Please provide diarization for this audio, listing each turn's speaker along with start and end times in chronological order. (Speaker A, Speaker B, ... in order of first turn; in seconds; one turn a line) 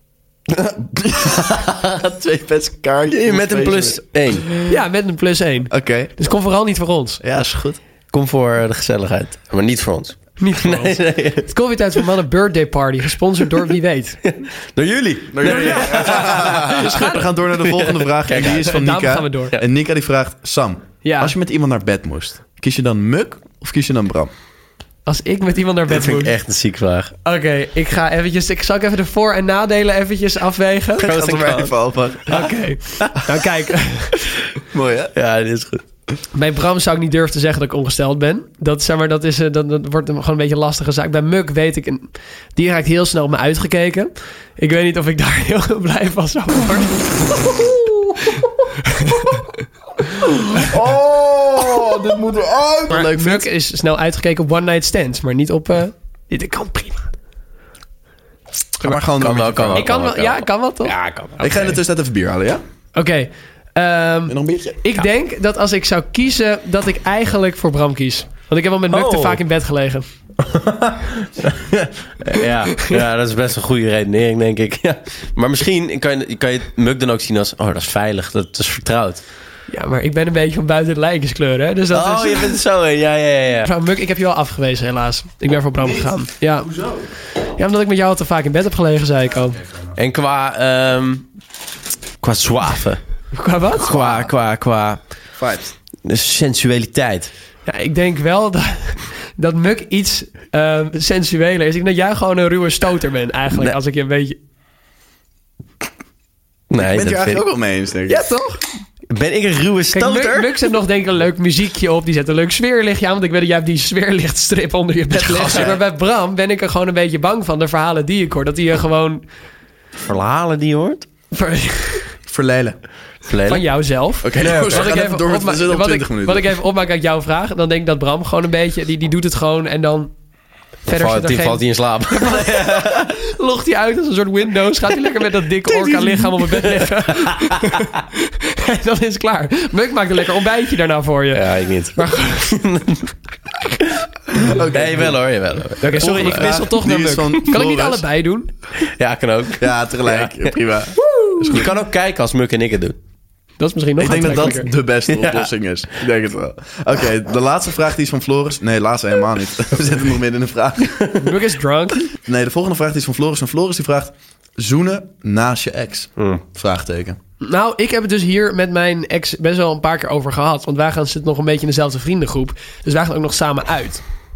Speaker A: 0.6-4.7
Speaker B: 3.2-4.5
Speaker C: 4.7-7.2
Speaker A: 5.7-6.1
Speaker A: 7.2-7.8
Speaker B: 8.1-11.5
Speaker C: 10.4-14.2
Speaker B: 14.2-17.0
Speaker A: 15.3-24.3
Speaker C: 15.4-17.3
Speaker B: 17.6-18.7
Speaker C: 18.4-19.5
Speaker C: 21.0-21.3
Speaker C: 25.1-26.3
Speaker B: 25.9-27.1
Speaker C: 27.2-31.2
Speaker A: 31.0-32.5
Speaker B: 31.0-31.8
Speaker C: 32.3-34.1
Speaker A: 34.7-35.1
Speaker B: 35.1-35.8
Speaker C: 36.3-47.6
Speaker C: 48.9-49.4
Speaker A: 50.5-53.5
Speaker C: 52.9-57.1
Speaker A: 58.8-59.9
Speaker B: 59.2-61.5
Speaker C: 59.8-61.8
Speaker A: 61.4-62.6
Speaker C: 62.9-70.0
Speaker A: 64.3-64.8
Speaker B: 68.9-69.4
Speaker B: 70.4-79.2
Speaker C: 79.7-82.6
Speaker B: 81.9-83.7
Speaker C: 83.6-89.6
Speaker B: 89.9-91.3
Speaker B: 92.2-93.0
Speaker C: 93.3-94.3
Speaker B: 93.8-95.0
Speaker A: 95.4-95.7
Speaker B: 96.0-97.3
Speaker C: 97.7-104.4
Speaker B: 106.7-107.4
Speaker A: 106.8-108.3
Speaker C: 108.1-108.6
Speaker B: 109.1-110.7
Speaker C: 109.9-119.2
Speaker A: 115.2-115.8
Speaker B: 115.3-115.8
Speaker B: 120.0-121.0
Speaker C: 121.3-122.1
Speaker A: 122.3-122.8
Speaker B: 123.3-123.7
Speaker C: 123.5-130.1
Speaker A: 124.2-126.5
Speaker B: 124.4-124.9
Speaker C: 130.8-142.5
Speaker B: 130.9-133.1
Speaker B: 135.7-137.9
Speaker B: 141.3-143.1
Speaker A: 144.4-145.2
Speaker B: 144.7-146.6
Speaker C: 145.8-148.5
Speaker A: 146.0-148.0
Speaker B: 148.8-150.5
Speaker A: 149.6-151.7
Speaker C: 151.0-151.6
Speaker B: 151.5-153.0
Speaker C: 153.6-154.7
Speaker A: 154.0-161.2
Speaker B: 155.1-155.5
Speaker C: 161.2-162.0
Speaker A: 162.1-167.2
Speaker B: 166.2-166.4
Speaker C: 167.4-174.0